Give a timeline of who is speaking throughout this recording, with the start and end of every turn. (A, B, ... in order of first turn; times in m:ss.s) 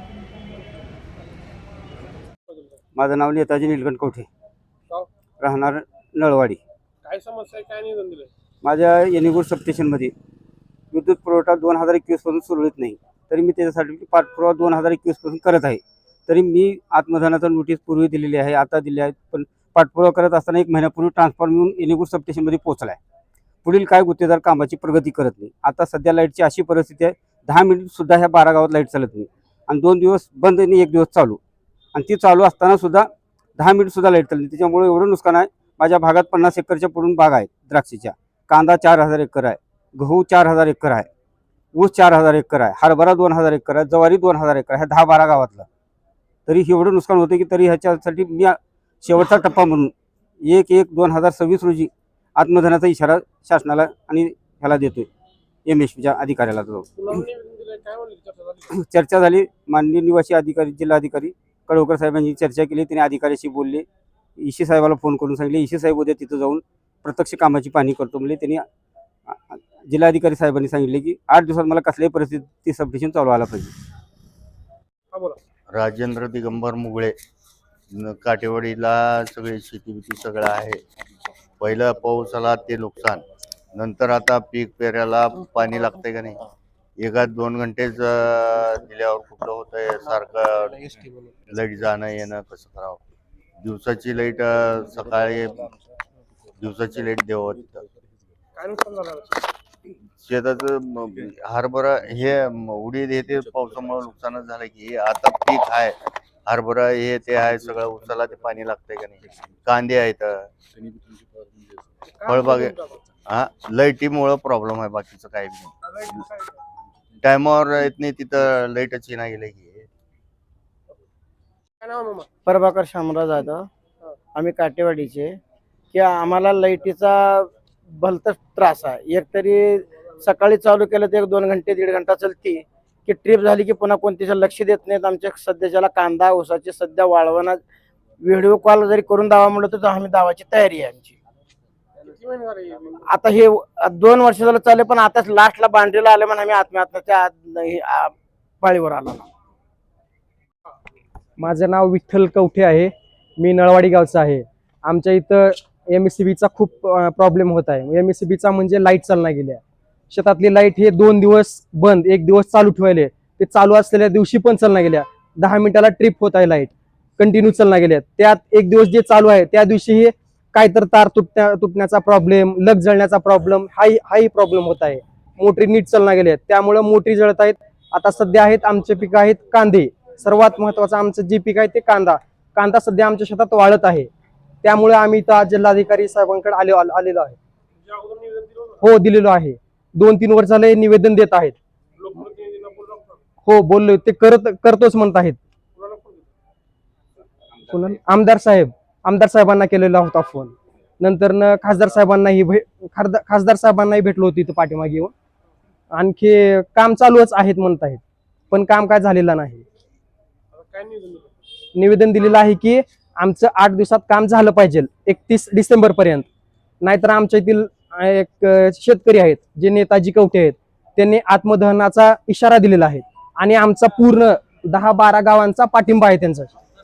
0:03.0-0:04.3 A
0:05.4-0:06.6 A
0:07.0-0:08.3 B
0:08.6-0:10.1 A
0:10.9-0:23.0 A
0:23.6-0:31.4 A
0:31.9-0:41.1 A
0:41.7-0:45.7 A
0:46.5-0:49.9 A
0:50.4-0:55.1 A
0:55.7-0:57.2 A
0:57.0-0:58.7 B
0:58.7-1:03.9 A
1:04.4-1:08.6 A
1:09.3-1:13.7 A
1:15.1-1:15.4 B
1:15.7-1:17.2 C
1:17.9-1:20.8 C
1:21.6-1:26.5 C
1:27.0-1:30.9 C
1:30.9-1:31.3 B
1:31.5-1:33.0 C
1:33.6-1:35.7 C
1:36.6-1:37.8 C
1:38.6-1:39.5 B
1:40.2-1:50.5 C
1:52.1-1:53.0 B
1:52.2-1:56.1 C
1:56.1-1:56.5 B
1:57.2-1:59.9 C
2:01.8-2:02.3 B
2:02.5-2:03.7 D
2:04.4-2:05.4 D
2:05.9-2:17.6 D
2:18.2-2:21.2 D
2:22.0-2:23.1 B
2:23.1-2:29.3 D
2:31.4-3:04.1 E
3:04.6-3:07.4 E
3:07.9-3:08.8 B
3:08.8-3:11.6 E
3:12.0-3:13.2 B
3:13.4-3:15.4 E
3:15.8-3:16.3 B
3:17.7-3:25.1 E
3:25.9-3:29.6 E
3:30.5-3:31.4 B
3:31.8-3:36.3 E
3:36.8-3:46.5 E